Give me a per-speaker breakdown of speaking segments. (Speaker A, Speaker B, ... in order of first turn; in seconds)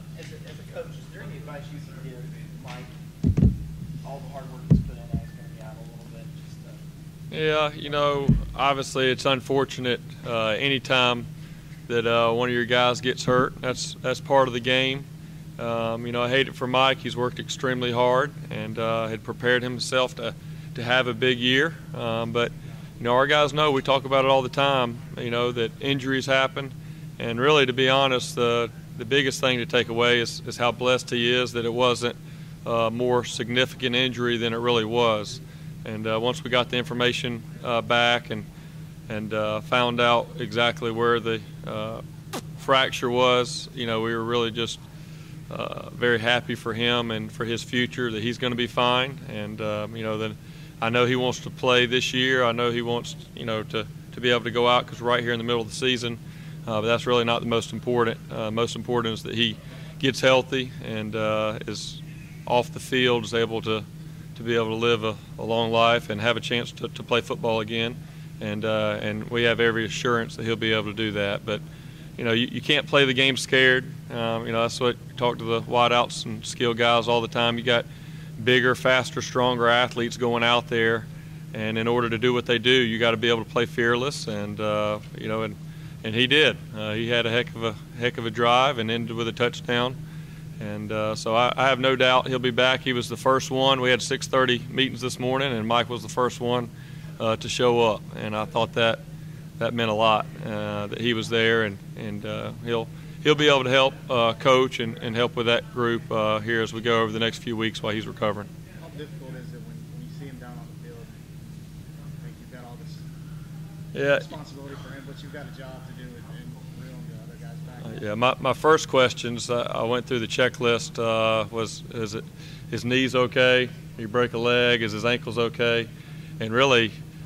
Speaker A: 0.2-2.9, 4.0-6.8
Speaker B: 7.3-11.3, 11.9-15.0, 15.6-38.5, 39.1-42.0, 42.6-44.8, 45.5-71.6, 72.2-77.9, 78.4-90.0, 90.6-99.0, 99.6-108.5, 113.9-114.3, 117.8-125.9, 126.4-126.9
Speaker C: 108.8-111.2, 112.2-113.0, 114.1-118.0